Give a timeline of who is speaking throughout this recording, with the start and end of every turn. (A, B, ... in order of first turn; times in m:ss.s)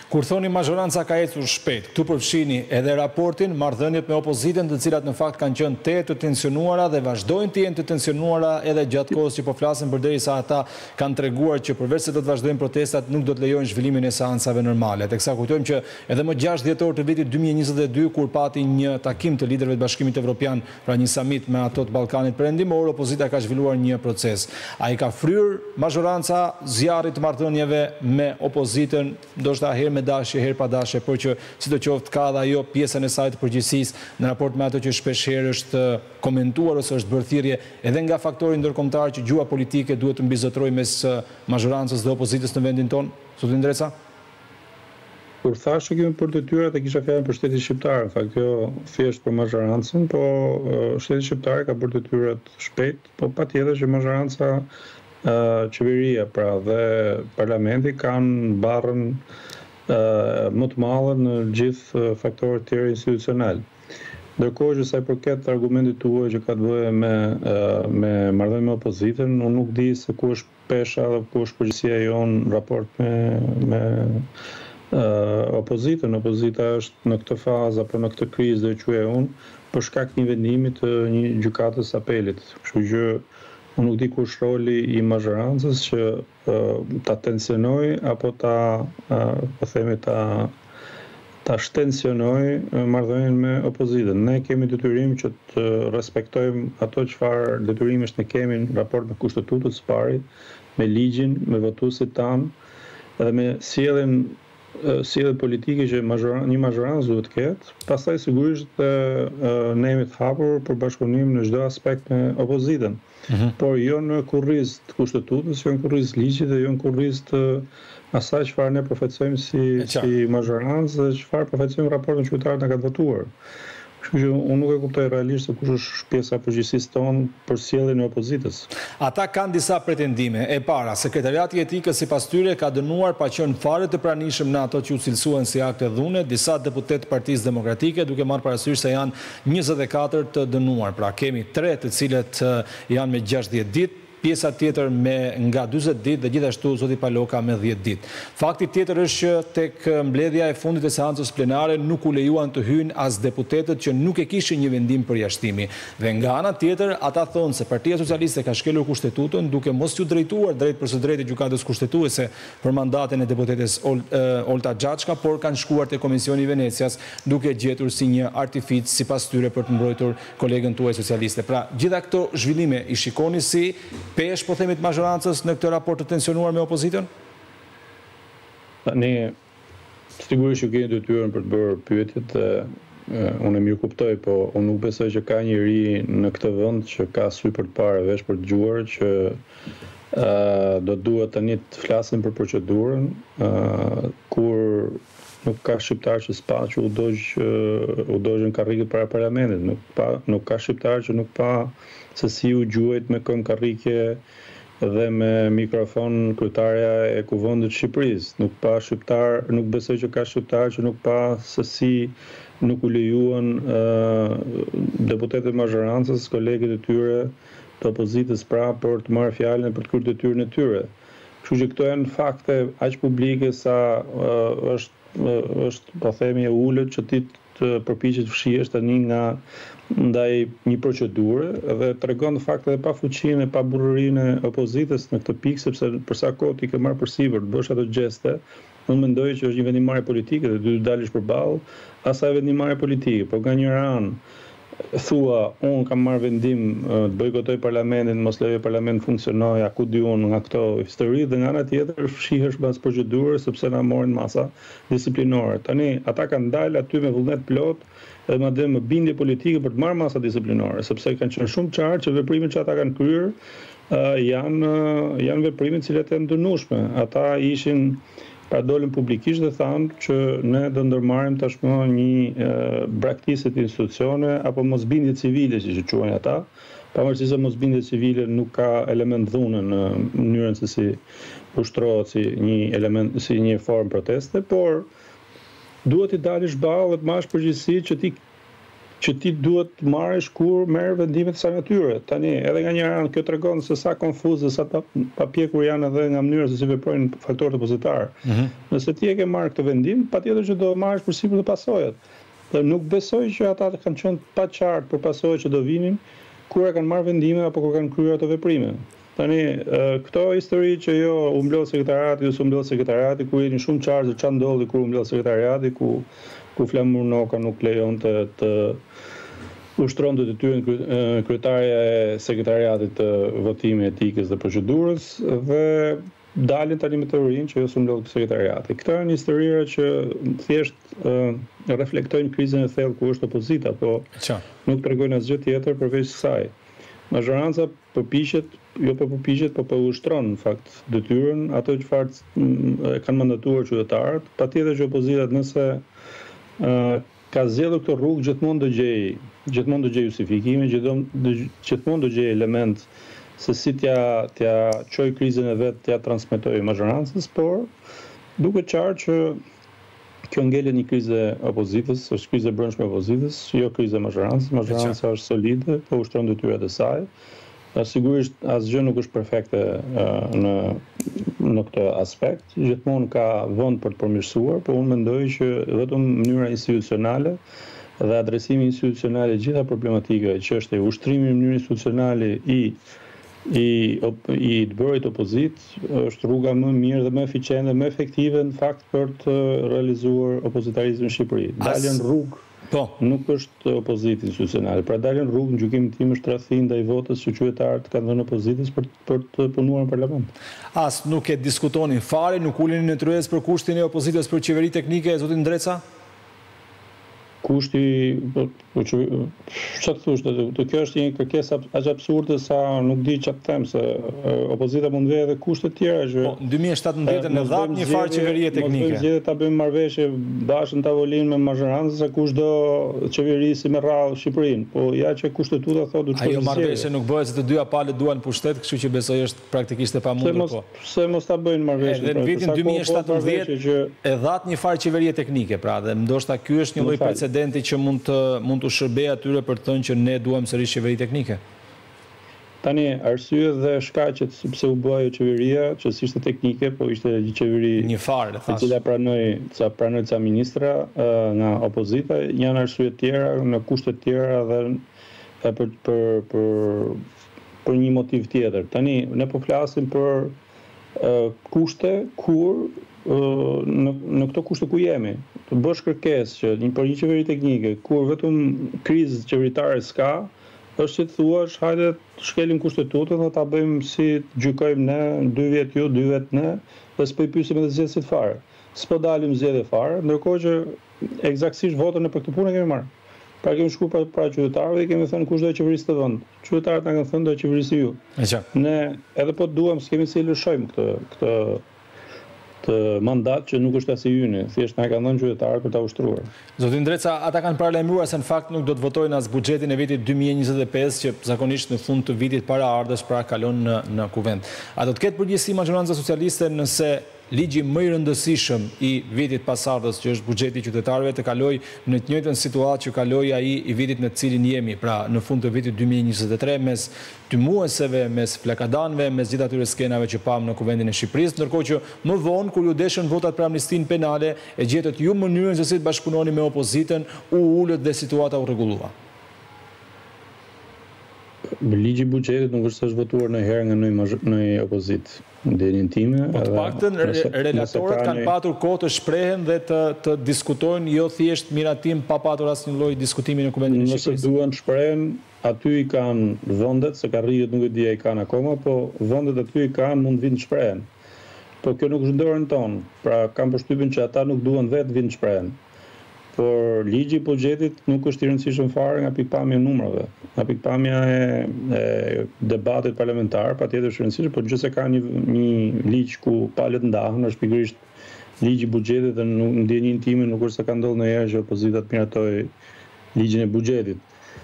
0:00.1-0:43.9 A
0:45.4-0:54.7 B
0:55.2-0:59.2 B
0:59.9-1:03.6 B
1:04.4-1:14.3 B
1:14.9-1:23.2 B
1:23.8-1:30.5 B
1:31.4-1:40.2 B
1:40.8-1:42.5 B
1:43.2-1:53.0 B
1:53.3-1:53.5 A
1:53.6-2:03.3 B
1:59.8-2:00.1 A
2:04.0-2:08.7 B
2:09.0-2:57.1 A
2:58.8-2:59.3 B
3:00.2-3:09.4 B
3:10.1-3:24.2 B
3:24.8-3:40.9 B
3:41.4-4:04.2 B
4:04.9-4:23.4 B
4:23.9-4:41.0 B
4:41.5-4:44.9 B
4:45.8-4:48.2 B
4:49.0-5:02.0 B
4:58.2-4:58.5 A
5:02.5-5:18.8 B
5:19.8-5:34.1 B
5:34.2-5:34.4 A
5:34.6-5:36.5 B
5:37.1-5:45.8 B
5:46.6-5:57.7 B
5:58.4-5:59.4 B
6:00.3-6:07.1 B
6:04.7-6:05.0 A
6:07.7-6:17.4 B
6:18.0-6:22.8 B
6:23.4-6:32.4 B
6:31.6-6:32.0 A
6:32.7-6:33.0 A
6:33.0-6:40.3 B
6:40.7-6:45.8 A
6:47.4-6:56.4 B
6:56.2-6:59.0 A
6:57.0-7:06.9 B
7:06.2-7:10.6 A
7:10.2-7:13.9 B
7:11.8-7:13.5 A
7:14.0-7:21.4 A
7:16.8-7:17.2 B
7:22.6-7:27.9 B
7:27.8-7:28.8 A
7:28.4-7:34.8 B
7:35.4-7:37.0 B
7:37.6-7:40.4 B
7:41.0-8:02.9 B
8:03.4-8:08.0 B
8:08.2-8:08.4 A
8:08.5-8:11.6 B
8:12.6-8:16.3 B
8:16.6-8:48.9 A
8:51.6-8:58.3 B
8:56.3-9:04.2 A
9:03.7-9:10.9 B
9:11.6-9:15.6 B
9:16.3-9:27.8 B
9:28.4-9:32.5 B
9:33.1-9:34.0 B